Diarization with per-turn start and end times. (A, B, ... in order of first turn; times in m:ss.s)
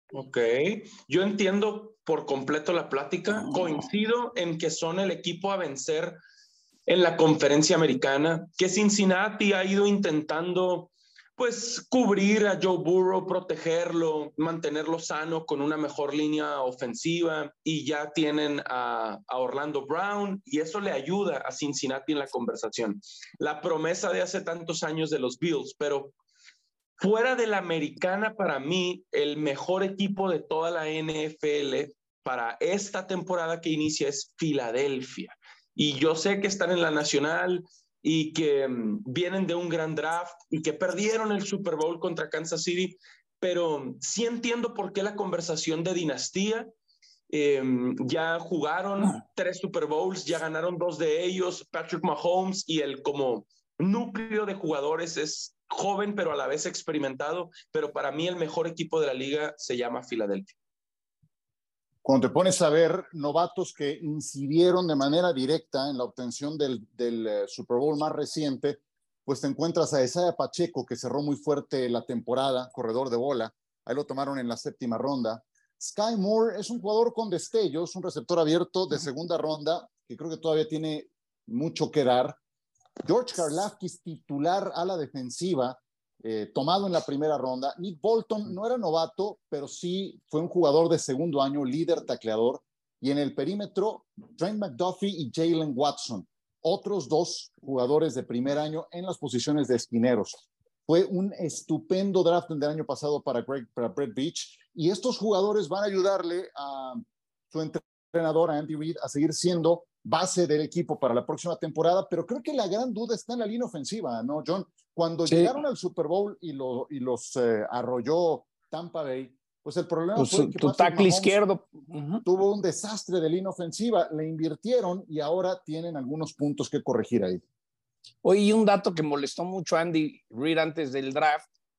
0:00.1-0:06.2 A
0:03.3-0:03.8 B
0:06.9-0:26.1 A
0:27.0-0:46.7 A
0:47.3-1:00.6 A
1:02.0-1:22.4 C
1:23.0-2:01.4 C
1:55.3-1:55.6 B
2:00.2-2:02.2 B
2:02.2-2:07.4 C
2:08.2-2:11.4 B